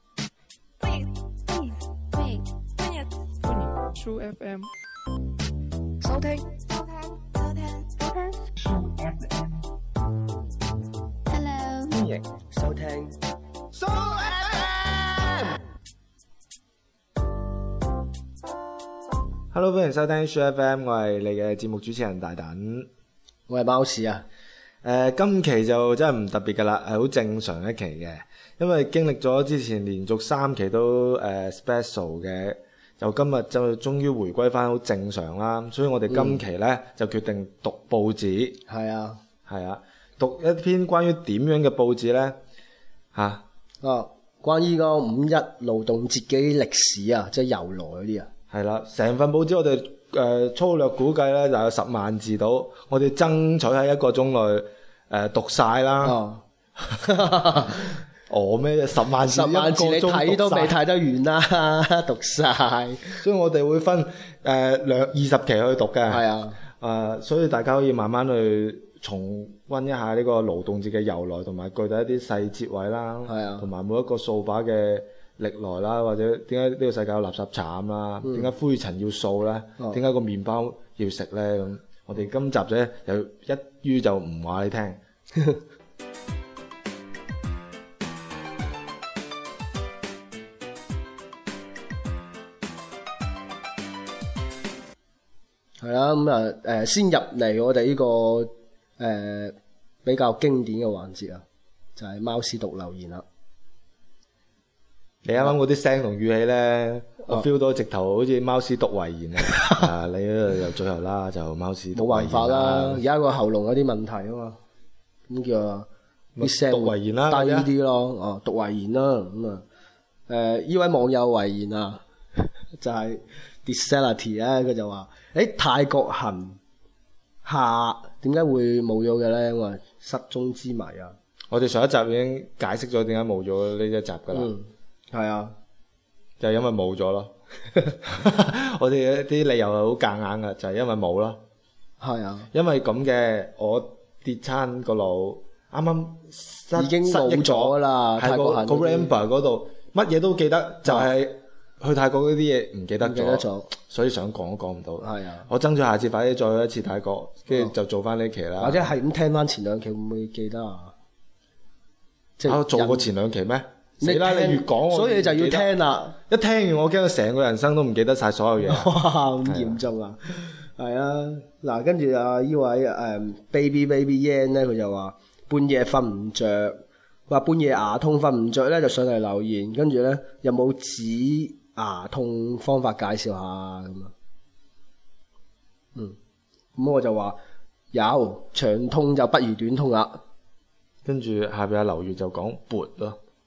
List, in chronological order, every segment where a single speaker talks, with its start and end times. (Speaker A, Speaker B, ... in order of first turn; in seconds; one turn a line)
Speaker A: 0.8-4.7
Speaker A: 6.0-9.5
Speaker A: 11.3-12.1
Speaker B: 12.5-13.1
Speaker C: 13.7-15.5
Speaker C: 19.5-22.9
Speaker B: 23.5-24.2
Speaker C: 24.8-38.6
Speaker B: 36.1-36.4
Speaker B: 38.7-39.2
Speaker C: 39.5-42.4
Speaker C: 43.1-43.4
Speaker B: 43.8-48.3
Speaker C: 48.5-56.2
Speaker B: 56.0-56.4
Speaker B: 57.0-57.9
Speaker C: 58.3-60.8
Speaker B: 59.2-63.2
Speaker C: 63.2-85.0
Speaker B: 66.1-66.6
Speaker B: 73.2-73.7
Speaker B: 78.2-78.5
Speaker B: 95.8-101.4
Speaker B: 102.0-103.2
Speaker C: 105.2-113.0
Speaker B: 111.9-114.6
Speaker B: 115.3-115.9
Speaker C: 116.3-117.7
Speaker B: 116.4-119.6
Speaker B: 120.3-126.6
Speaker B: 127.4-131.2
Speaker C: 131.5-134.5
Speaker B: 134.3-135.6
Speaker C: 136.4-137.3
Speaker C: 138.0-141.4
Speaker B: 142.0-142.5
Speaker C: 142.5-158.8
Speaker B: 146.8-149.1
Speaker B: 153.0-153.7
Speaker B: 155.0-155.5
Speaker B: 158.6-160.9
Speaker B: 162.4-163.1
Speaker C: 162.4-165.7
Speaker B: 164.0-166.2
Speaker C: 166.3-168.9
Speaker B: 168.7-184.1
Speaker C: 169.4-169.8
Speaker B: 186.8-187.4
Speaker B: 187.9-190.2
Speaker C: 191.0-193.2